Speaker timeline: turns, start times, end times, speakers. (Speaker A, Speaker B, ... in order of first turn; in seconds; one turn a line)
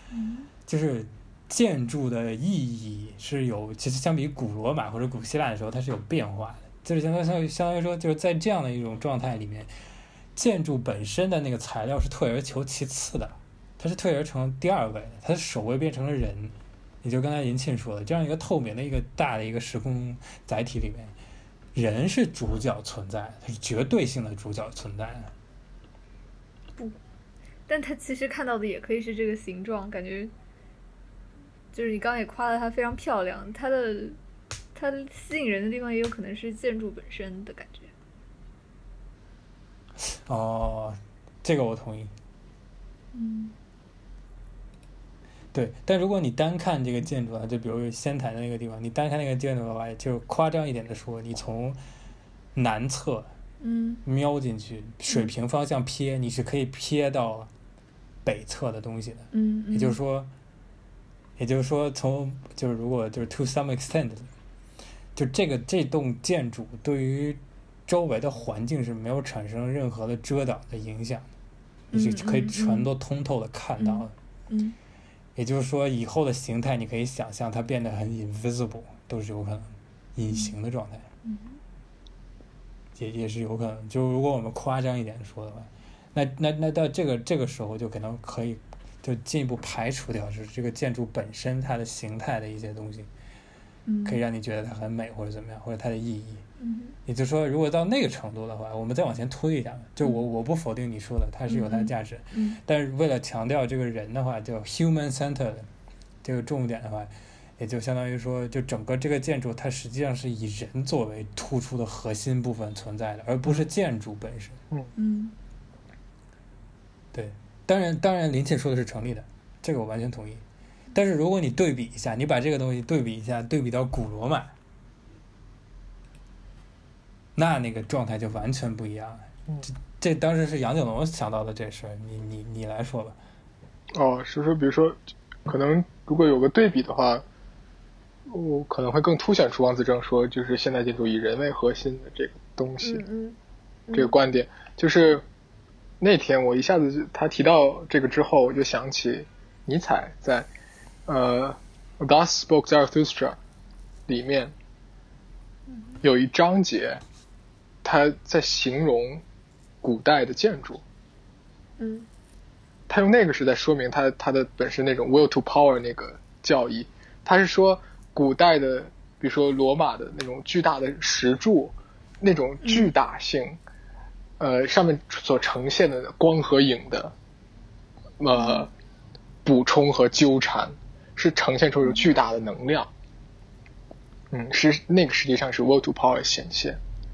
Speaker A: 0.1-0.5
Speaker B: 0.7-9.7
Speaker B: 10.3-21.1
Speaker B: 21.7-25.3
Speaker A: 27.7-30.3
Speaker A: 31.7-34.2
Speaker A: 34.7-37.9
Speaker B: 40.0-42.1
Speaker A: 43.1-43.5
Speaker B: 45.5-51.8
Speaker B: 52.5-53.3
Speaker A: 53.6-54.0
Speaker B: 54.0-57.5
Speaker B: 58.2-60.3
Speaker A: 59.3-60.0
Speaker B: 61.4-64.3
Speaker B: 65.2-71.3
Speaker A: 71.9-72.9
Speaker B: 71.9-74.1
Speaker A: 73.8-74.8
Speaker B: 75.3-81.0
Speaker A: 80.3-80.5
Speaker A: 81.2-81.6
Speaker B: 83.0-93.1
Speaker A: 93.8-94.2
Speaker B: 94.0-96.4
Speaker A: 96.6-97.0
Speaker B: 97.0-105.7
Speaker A: 101.5-102.6
Speaker B: 106.2-114.6
Speaker A: 115.0-115.3
Speaker B: 117.1-120.4
Speaker B: 120.9-124.5
Speaker B: 127.3-133.2
Speaker C: 133.9-137.2
Speaker C: 138.3-143.0
Speaker A: 142.8-143.4
Speaker A: 143.9-144.2
Speaker C: 143.9-145.2
Speaker C: 146.0-150.5
Speaker C: 151.1-153.4
Speaker C: 154.1-154.5
Speaker A: 155.7-156.0
Speaker C: 156.0-157.0
Speaker C: 157.8-159.2
Speaker C: 159.8-160.8
Speaker A: 161.8-162.1
Speaker C: 162.9-173.6
Speaker A: 172.6-172.9
Speaker C: 174.4-177.1
Speaker C: 178.2-178.7
Speaker A: 178.3-178.7
Speaker C: 179.4-182.9
Speaker C: 184.3-186.8